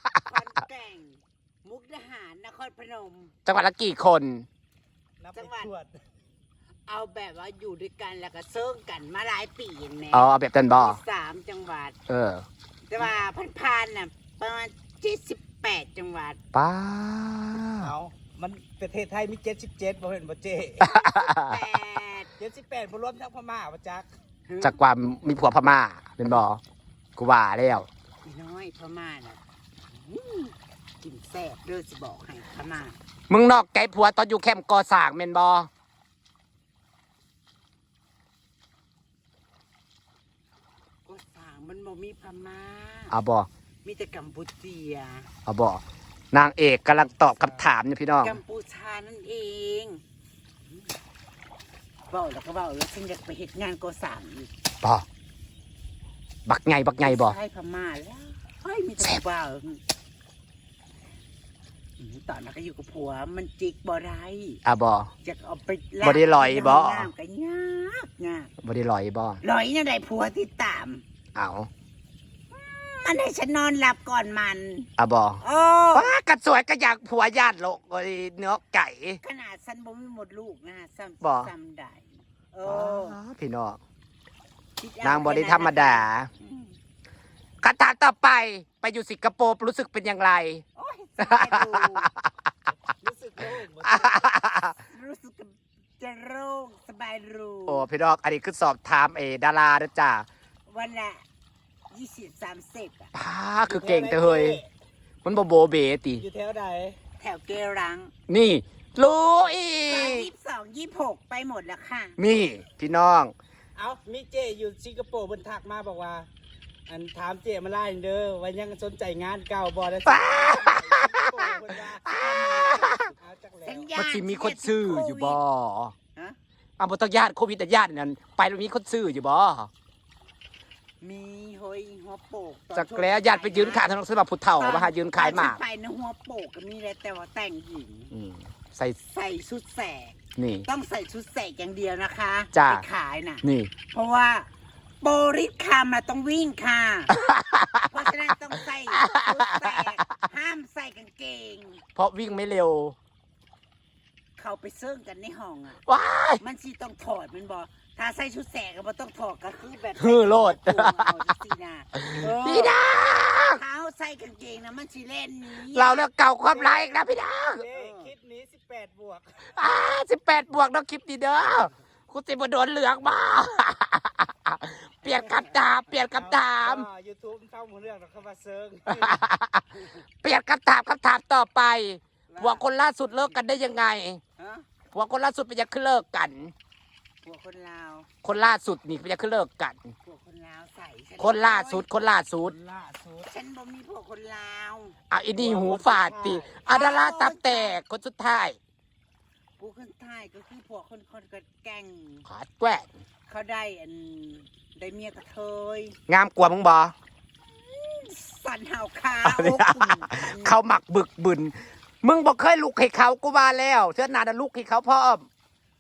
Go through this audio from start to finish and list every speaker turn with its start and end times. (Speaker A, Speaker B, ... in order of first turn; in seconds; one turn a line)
Speaker A: 0.2-3.4
Speaker B: 3.5-4.5
Speaker C: 5.2-6.0
Speaker A: 5.3-5.7
Speaker A: 6.9-12.0
Speaker B: 10.1-11.0
Speaker B: 12.1-12.5
Speaker A: 12.9-16.4
Speaker B: 16.5-17.9
Speaker C: 17.6-20.9
Speaker B: 20.8-21.5
Speaker A: 20.8-22.3
Speaker C: 22.4-24.1
Speaker A: 24.5-24.8
Speaker B: 24.6-26.6
Speaker B: 27.2-27.9
Speaker A: 28.2-33.0
Speaker B: 33.3-35.7
Speaker A: 41.1-43.2
Speaker B: 43.1-43.5
Speaker A: 43.9-45.3
Speaker B: 45.5-48.3
Speaker C: 47.3-47.6
Speaker A: 48.2-50.0
Speaker A: 52.1-54.5
Speaker B: 56.5-57.3
Speaker A: 57.0-59.8
Speaker A: 62.0-64.6
Speaker B: 64.7-65.1
Speaker A: 65.2-68.5
Speaker B: 66.0-67.0
Speaker B: 68.6-69.4
Speaker A: 69.4-71.0
Speaker B: 71.3-71.7
Speaker A: 72.5-74.9
Speaker B: 75.0-75.4
Speaker A: 75.4-76.2
Speaker B: 75.9-79.2
Speaker A: 79.2-83.2
Speaker B: 81.2-81.5
Speaker B: 82.7-83.8
Speaker A: 84.8-86.8
Speaker B: 85.1-86.3
Speaker B: 87.6-90.6
Speaker A: 90.8-92.1
Speaker B: 91.2-92.3
Speaker C: 93.0-94.3
Speaker B: 93.8-94.7
Speaker A: 94.7-97.9
Speaker B: 97.7-100.3
Speaker A: 100.7-101.2
Speaker A: 101.9-103.1
Speaker B: 103.1-104.6
Speaker C: 103.7-104.7
Speaker B: 105.2-106.2
Speaker C: 106.2-107.0
Speaker A: 107.2-108.2
Speaker B: 108.3-110.3
Speaker A: 109.9-112.2
Speaker B: 112.2-113.3
Speaker C: 113.8-116.3
Speaker C: 116.9-123.9
Speaker B: 120.1-121.5
Speaker A: 122.1-122.9
Speaker B: 122.1-123.1
Speaker A: 123.7-125.4
Speaker B: 123.9-125.9
Speaker B: 126.8-129.7
Speaker A: 131.0-133.9
Speaker B: 132.8-135.6
Speaker A: 134.5-138.1
Speaker B: 138.1-139.0
Speaker A: 139.0-144.5
Speaker B: 140.4-140.7
Speaker B: 143.4-143.7
Speaker A: 145.0-147.2
Speaker B: 147.2-147.8
Speaker A: 147.8-151.9
Speaker B: 149.0-149.7
Speaker B: 152.0-153.0
Speaker A: 154.4-155.8
Speaker B: 155.9-156.4
Speaker A: 156.4-166.1
Speaker B: 160.1-161.1
Speaker B: 161.9-163.6
Speaker B: 165.8-167.7
Speaker C: 166.5-167.0
Speaker C: 167.5-169.6
Speaker A: 167.7-168.1
Speaker B: 169.6-176.9
Speaker A: 175.0-175.6
Speaker C: 176.0-179.3
Speaker B: 179.0-179.7
Speaker B: 180.2-184.2
Speaker A: 182.3-182.7
Speaker A: 184.4-184.7
Speaker B: 184.9-186.5
Speaker A: 187.2-188.1
Speaker B: 188.2-189.8
Speaker A: 190.0-191.9
Speaker B: 191.2-192.6
Speaker C: 192.5-193.3
Speaker A: 193.3-195.0
Speaker B: 195.1-198.6
Speaker C: 195.3-196.7
Speaker A: 196.7-197.8
Speaker A: 199.6-202.3
Speaker B: 202.3-202.9
Speaker A: 203.3-206.0
Speaker B: 206.1-206.9
Speaker A: 207.6-210.6
Speaker B: 209.3-215.3